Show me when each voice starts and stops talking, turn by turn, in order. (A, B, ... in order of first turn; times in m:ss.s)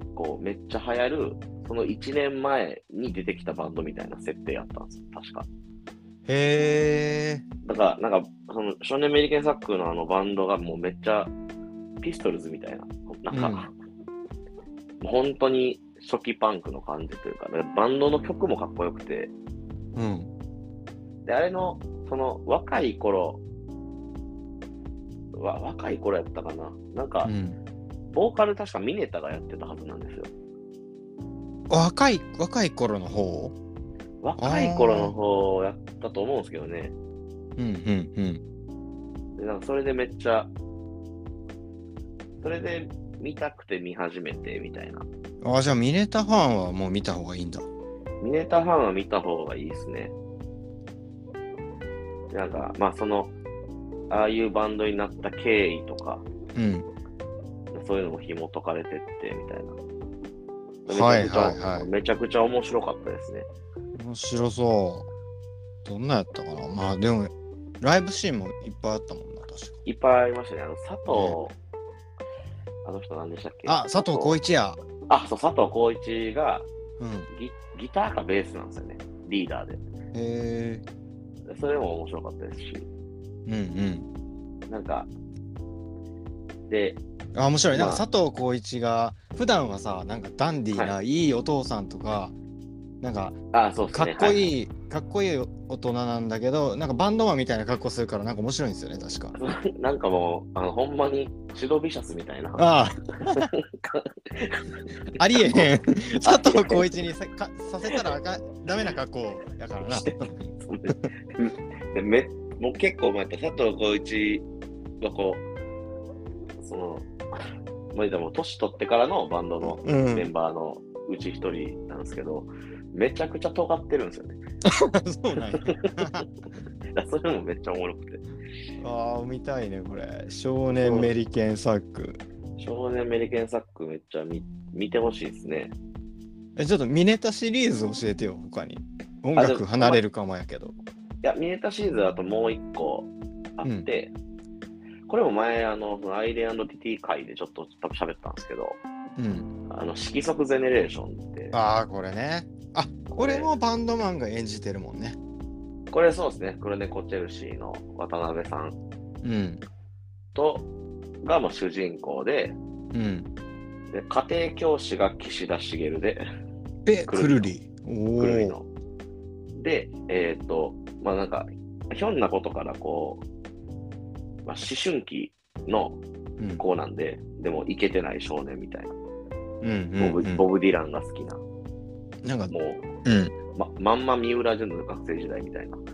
0:00.2-0:05.5 A
0:06.3-0:07.4 B
0:07.6-0:11.3 A
0:12.0-0:13.7 A
0:13.3-0:13.7 B
0:15.0-0:19.3 A
0:20.0-0:20.3 B
0:21.2-0:23.4 A
0:25.3-0:27.3 A
0:27.2-0:27.6 B
0:28.1-0:30.3 A
0:31.7-0:33.6 B
0:34.2-0:36.9 A
0:34.4-0:35.2 B
0:37.6-0:38.4 B
0:39.4-0:40.5 A
0:42.4-0:45.1 A
0:45.4-0:47.7 B
0:48.2-0:50.1 A
0:52.3-0:53.3 A
0:54.1-0:56.2 A
0:56.6-0:56.9 B
0:57.7-0:59.8 A
1:00.9-1:03.5 A
1:00.9-1:01.9 B
1:04.0-1:05.1 B
1:05.8-1:09.8 B
1:09.8-1:11.6 A
1:11.1-1:11.4 B
1:12.8-1:14.4 A
1:13.7-1:14.8 B
1:15.1-1:16.7 A
1:17.0-1:17.3 B
1:17.3-1:19.8 A
1:20.1-1:20.8 B
1:21.5-1:22.9 A
1:23.5-1:24.1 B
1:24.7-1:25.1 A
1:26.7-1:27.0 A
1:27.4-1:32.4 B
1:27.7-1:28.0 A
1:33.0-1:33.4 B
1:33.5-1:34.5 A
1:33.9-1:39.3 B
1:39.3-1:42.7 A
1:42.6-1:43.5 B
1:43.2-1:46.9 A
1:45.2-1:50.5 B
1:49.9-1:54.4 A
1:55.0-1:55.5 A
1:56.6-1:57.1 A
1:57.9-2:04.4 A
1:59.6-2:00.3 B
2:04.6-2:06.2 B
2:05.6-2:06.2 A
2:06.9-2:08.2 A
2:08.8-2:12.2 B
2:10.8-2:11.1 A
2:12.6-2:15.7 A
2:16.6-2:20.7 B
2:19.4-2:20.0 A
2:21.2-2:24.1 A
2:25.1-2:28.8 A
2:29.2-2:29.5 B
2:29.7-2:31.6 A
2:31.5-2:35.2 B
2:33.1-2:33.5 A
2:35.9-2:38.8 A
2:39.2-2:39.6 B
2:40.3-2:40.7 A
2:41.2-2:42.6 A
2:42.9-2:43.3 B
2:43.9-2:46.2 A
2:46.9-2:48.6 B
2:47.1-2:47.5 A
2:48.2-2:48.7 A
2:49.6-2:53.2 A
2:54.4-2:56.0 A
2:56.6-2:59.0 A
2:59.6-3:00.4 B
3:00.0-3:01.4 A
3:02.2-3:02.5 B
3:02.5-3:02.9 A
3:03.0-3:03.3 B
3:03.5-3:05.8 A